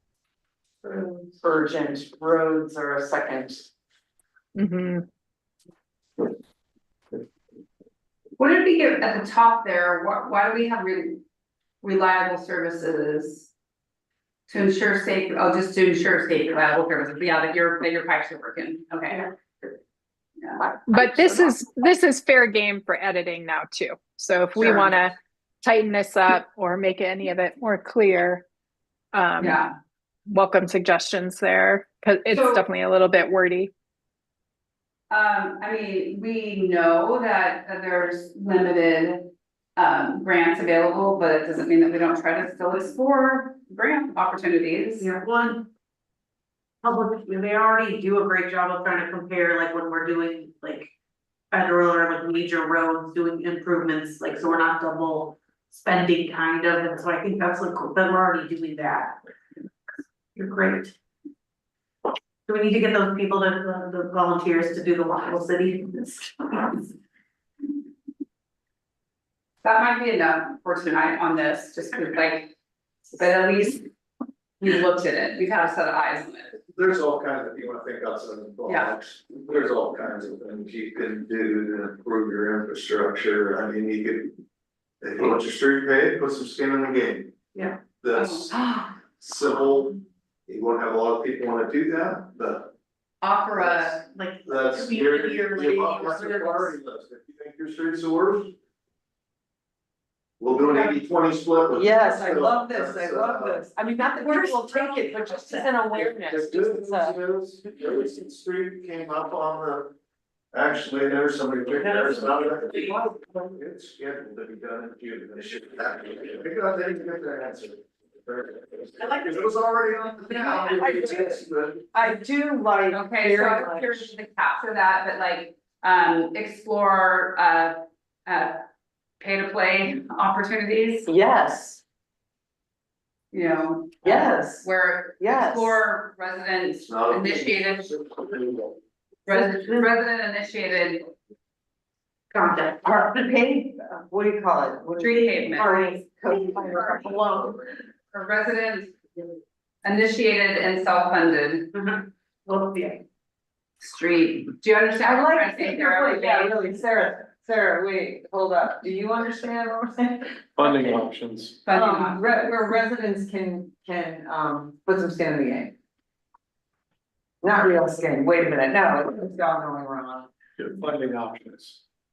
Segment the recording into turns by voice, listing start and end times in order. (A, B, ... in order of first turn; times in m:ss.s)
0:01.2-0:03.7 A
0:04.6-0:05.1 B
0:08.4-0:11.2 C
0:11.8-0:13.5 C
0:14.5-0:19.3 C
0:20.9-0:28.5 B
0:29.1-0:29.7 B
0:29.4-0:29.7 C
0:30.3-0:33.7 B
0:32.3-0:32.6 C
0:35.1-0:45.1 C
0:45.0-0:45.7 D
0:46.8-0:50.9 D
0:51.5-0:59.2 D
1:00.4-1:00.9 D
1:02.5-1:06.9 D
1:09.6-1:12.5 C
1:13.2-1:13.9 C
1:14.6-1:16.6 C
1:16.8-1:24.3 E
1:18.7-1:18.9 C
1:25.0-1:27.3 E
1:27.5-1:27.8 D
1:28.0-1:28.6 E
1:28.1-1:28.5 C
1:28.5-1:28.9 A
1:29.2-1:32.7 E
1:33.2-1:34.0 C
1:33.6-1:33.9 E
1:34.1-1:36.8 D
1:34.4-1:38.5 E
1:40.4-1:43.6 E
1:41.7-1:47.2 A
1:44.1-1:45.8 D
1:45.9-1:49.9 E
1:50.5-2:01.8 E
1:51.8-1:52.8 A
2:00.3-2:04.1 A
2:02.9-2:08.6 C
2:09.2-2:11.1 C
2:11.1-2:11.8 A
2:13.3-2:17.9 C
2:14.0-2:14.7 A
2:15.2-2:15.8 A
2:16.8-2:18.8 E
2:19.3-2:21.1 C
2:19.3-2:20.0 D
2:22.3-2:23.3 D
2:22.8-2:27.7 A
2:25.0-2:25.8 C
2:25.0-2:27.5 D
2:28.1-2:29.0 C
2:29.8-2:31.7 C
2:31.8-2:33.0 D
2:33.8-2:36.6 C
2:35.0-2:41.0 A
2:40.6-2:41.6 F
2:41.6-2:42.7 C
2:41.7-2:45.8 A
2:47.4-2:50.3 A
2:50.8-2:51.8 F